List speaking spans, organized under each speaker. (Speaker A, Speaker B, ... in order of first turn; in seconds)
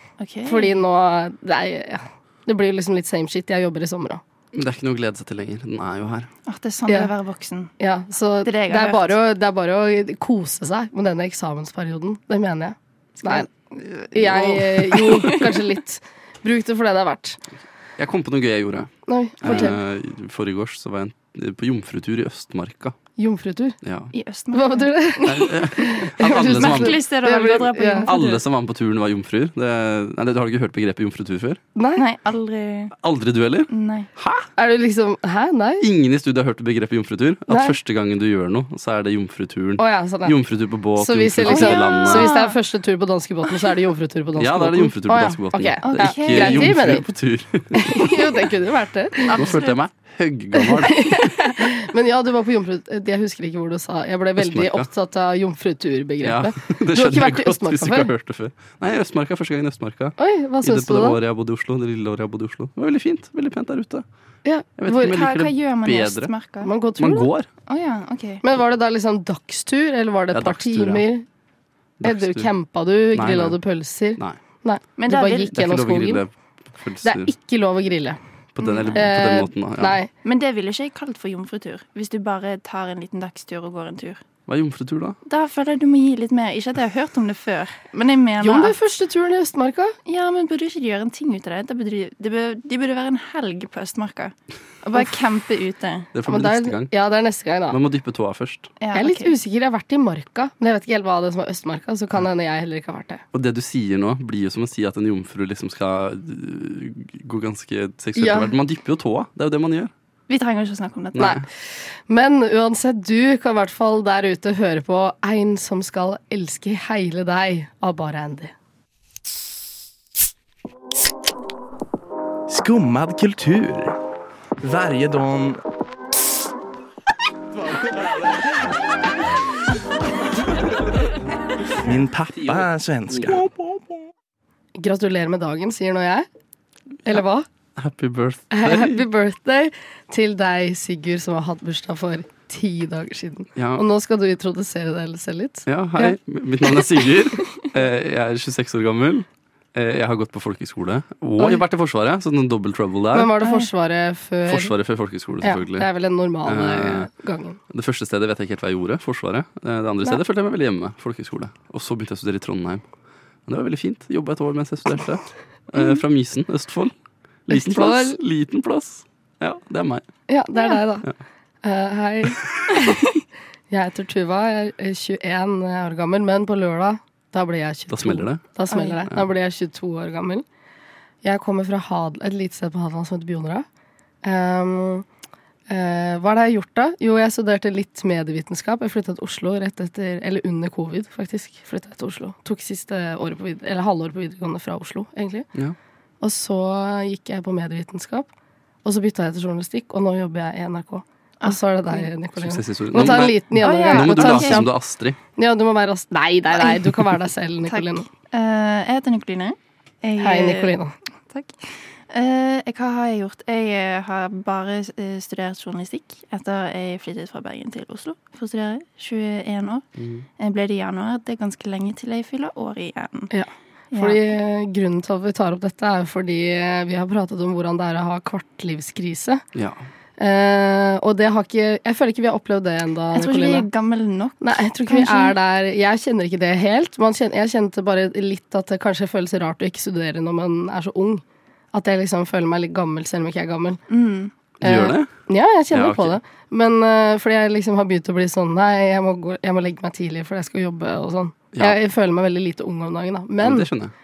Speaker A: 0.2-0.8, 6.5-7.7, 8.4-9.1, 13.2-15.7, 24.1-25.6, 26.2-28.4, 32.0-33.0, 33.7-34.1, 41.5-42.6, 45.8-46.8, 49.3-49.8, 51.0-51.5, 64.9-66.7, 67.7-68.4, 75.0-75.5, 78.6-79.0, 80.2-84.2, 85.3-88.8, 90.1-96.1, 98.8-99.3, 110.3-111.4, 178.7-179.0, 201.4-202.1, 203.0-204.7, 206.6-207.1, 207.7-210.8, 211.3-219.8, 220.4-223.3, 223.9-224.3, 233.1-235.3, 243.9-244.3
Speaker B: 0.5-4.2, 7.8-13.5, 14.1-17.4, 19.1-19.7, 23.2-23.8, 24.5-28.1, 31.8-32.0, 34.6-35.9, 37.5-37.8, 39.8-40.4, 41.0-47.0, 47.8-49.4, 50.9-58.1, 60.2-61.2, 64.5-65.2, 66.6-67.3, 68.4-71.2, 72.0-76.2, 77.0-78.2, 78.9-80.1, 88.4-90.0, 96.3-97.8, 98.9-103.2, 108.2-108.5, 111.2-111.5, 112.1-118.5, 134.8-136.3, 137.1-137.5, 138.5-146.2, 153.1-154.8, 155.4-157.6, 167.5-168.2, 170.3-171.1, 171.6-173.0, 173.7-180.4, 181.2-183.7, 184.2-185.1, 185.7-195.5, 196.2-198.3, 198.8-204.7, 205.4-208.1, 210.2-210.9, 223.3-229.4, 230.2-233.7, 234.4-243.8, 244.6-253.7
Speaker C: 4.5-6.3, 18.0-23.0, 23.8-24.1, 25.2-27.0, 28.1-31.6, 33.0-34.5, 35.8-42.3, 44.4-48.2, 49.3-51.1, 54.4-54.9, 56.2-64.0, 64.8-66.3, 67.0-67.5, 70.3-71.0, 72.0-72.5, 73.1-73.6, 75.5-77.3, 78.5-80.0, 84.5-85.2, 96.1-96.9, 97.7-98.7, 103.3-109.9, 111.2-111.4, 137.8-139.1, 143.6-143.8, 145.7-153.3, 154.5-155.9, 156.4-157.1, 157.7-162.8, 163.5-166.9, 167.5-170.1, 177.9-178.4, 202.4-205.2, 220.0-220.2, 229.5-229.8, 244.6-245.1, 245.7-246.2, 251.5-251.8, 253.4-253.9
Speaker D: 122.5-124.0, 124.6-125.6, 131.8-133.5